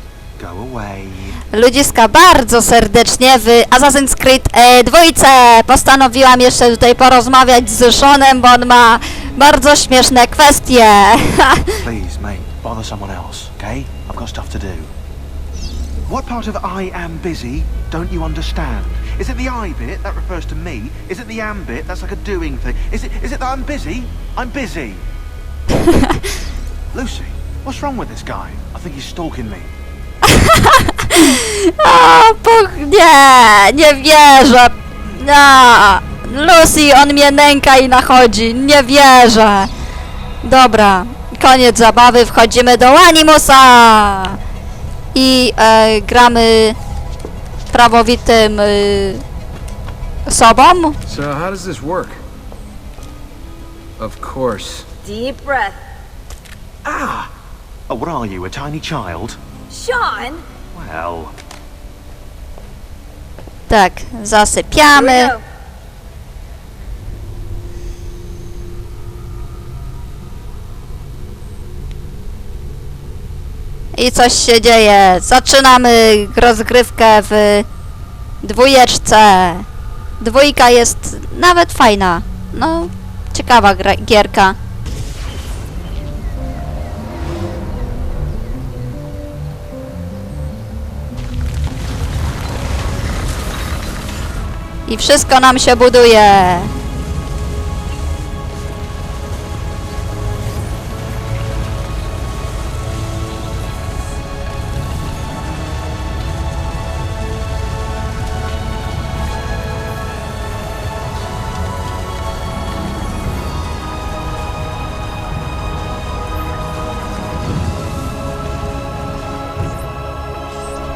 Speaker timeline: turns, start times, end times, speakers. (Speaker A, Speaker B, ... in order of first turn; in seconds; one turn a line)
Speaker A: 0.4-1.4
Speaker B: 1.5-11.7
Speaker A: 11.8-14.9
Speaker A: 16.1-25.0
Speaker A: 26.9-29.7
Speaker B: 30.3-39.7
Speaker B: 40.4-44.4
Speaker B: 45.1-46.8
Speaker B: 47.7-49.2
Speaker B: 50.3-51.0
Speaker C: 51.1-52.2
Speaker C: 54.0-54.9
Speaker D: 55.0-55.8
Speaker A: 57.9-59.4
Speaker D: 59.7-60.4
Speaker A: 60.7-61.4
Speaker B: 63.7-65.3
Speaker D: 64.9-65.4
Speaker B: 74.0-77.7
Speaker B: 78.4-79.7
Speaker B: 80.2-84.6
Speaker B: 94.9-96.7